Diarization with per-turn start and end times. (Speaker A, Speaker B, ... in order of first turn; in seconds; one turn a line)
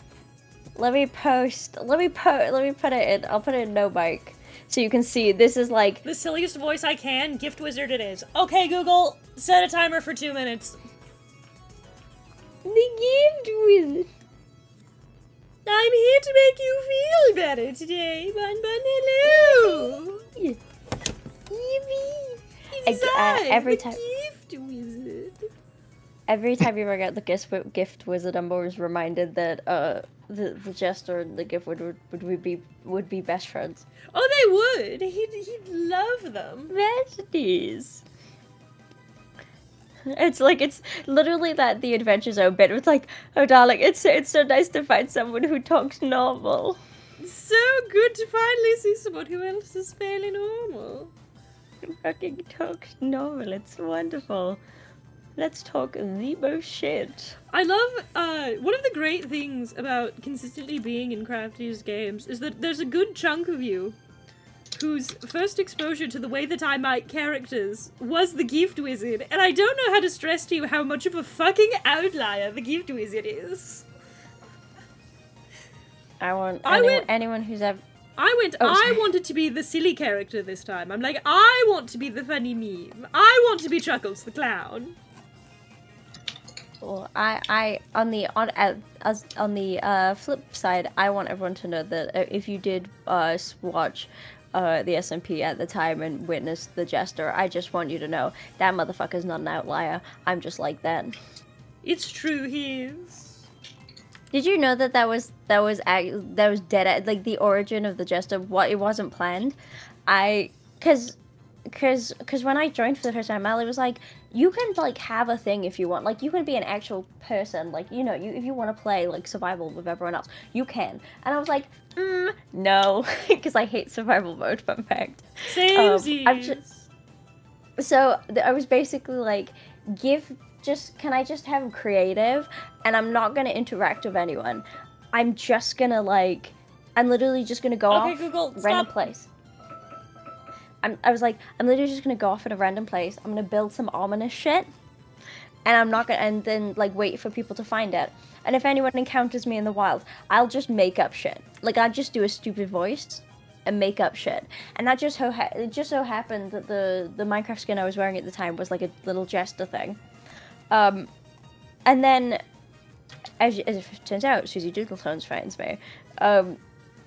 Speaker A: 0.7-6.0
Speaker B: 6.0-10.8
Speaker A: 12.6-14.1
Speaker B: 15.7-20.2
Speaker A: 19.2-20.6
Speaker B: 21.5-25.4
Speaker A: 22.9-24.0
Speaker A: 26.3-33.9
Speaker B: 34.1-36.7
Speaker A: 36.7-38.0
Speaker A: 40.1-46.8
Speaker B: 47.2-51.1
Speaker A: 51.9-54.6
Speaker A: 55.4-57.4
Speaker B: 57.5-64.0
Speaker B: 64.8-73.8
Speaker A: 76.2-77.8
Speaker B: 76.6-77.1
Speaker B: 78.2-84.9
Speaker A: 78.6-79.0
Speaker A: 86.8-101.2
Speaker B: 101.8-103.5
Speaker A: 104.3-111.2
Speaker A: 111.7-126.6
Speaker B: 125.5-126.8
Speaker A: 127.8-139.3
Speaker B: 137.9-139.0
Speaker A: 140.8-144.7
Speaker A: 145.7-160.0
Speaker A: 160.7-161.1
Speaker A: 161.8-162.4
Speaker A: 163.4-166.6